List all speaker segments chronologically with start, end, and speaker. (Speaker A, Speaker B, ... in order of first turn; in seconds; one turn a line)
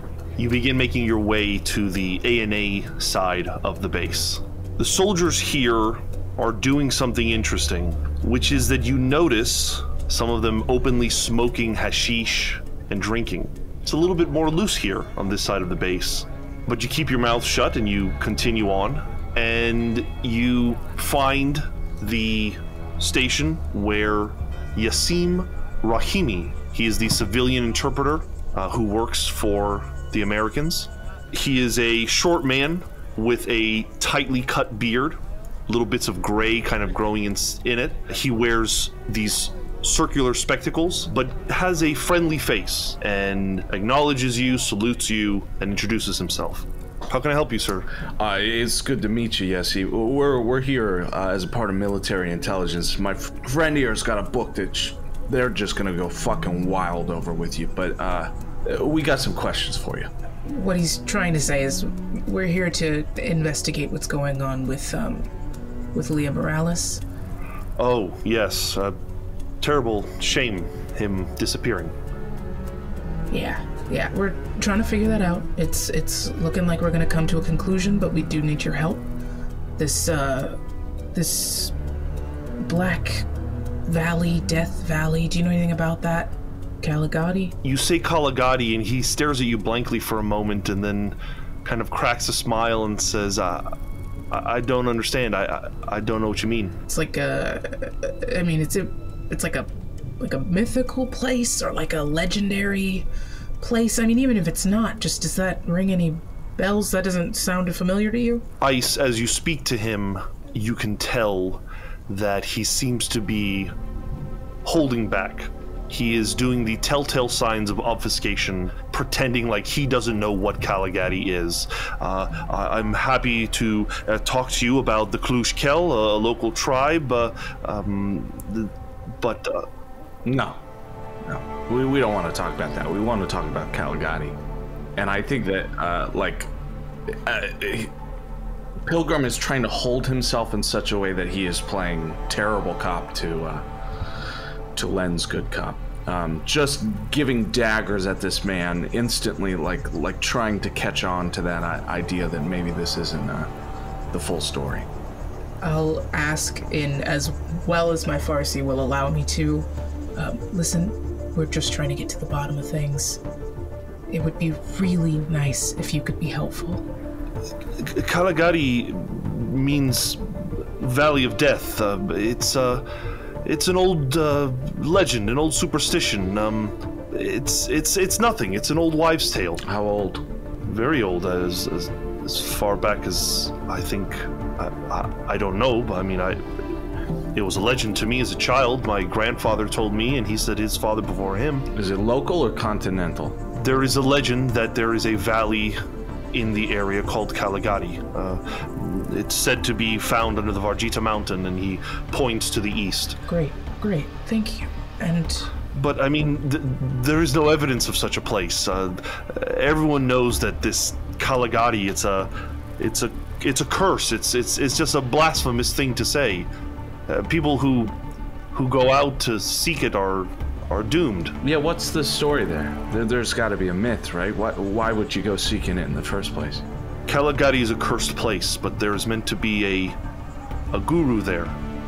Speaker A: 0.4-47.9
Speaker B: 48.2-60.1
Speaker C: 60.5-65.3
Speaker C: 65.9-67.0
Speaker A: 67.8-69.0
Speaker A: 69.6-71.9
Speaker C: 73.3-79.0
Speaker C: 79.8-80.6
Speaker C: 81.1-81.7
Speaker C: 82.6-83.2
Speaker C: 83.9-87.5
Speaker A: 87.6-93.7
Speaker A: 94.3-96.8
Speaker C: 96.9-103.1
Speaker C: 103.6-108.4
Speaker A: 108.6-113.7
Speaker A: 114.6-129.7
Speaker B: 130.2-130.6
Speaker B: 131.2-134.4
Speaker B: 134.9-136.5
Speaker B: 137.1-137.9
Speaker B: 138.8-143.6
Speaker B: 144.7-153.5
Speaker B: 154.1-154.9
Speaker C: 155.6-163.2
Speaker C: 164.1-166.8
Speaker A: 167.8-172.8
Speaker A: 173.4-179.6
Speaker B: 179.6-180.2
Speaker A: 180.6-186.4
Speaker A: 187.3-191.7
Speaker B: 191.7-193.4
Speaker A: 193.5-195.8
Speaker A: 196.3-203.2
Speaker C: 203.3-205.5
Speaker A: 205.7-216.5
Speaker A: 217.1-217.9
Speaker A: 218.5-221.3
Speaker B: 221.4-226.6
Speaker A: 227.1-230.0
Speaker A: 230.7-231.6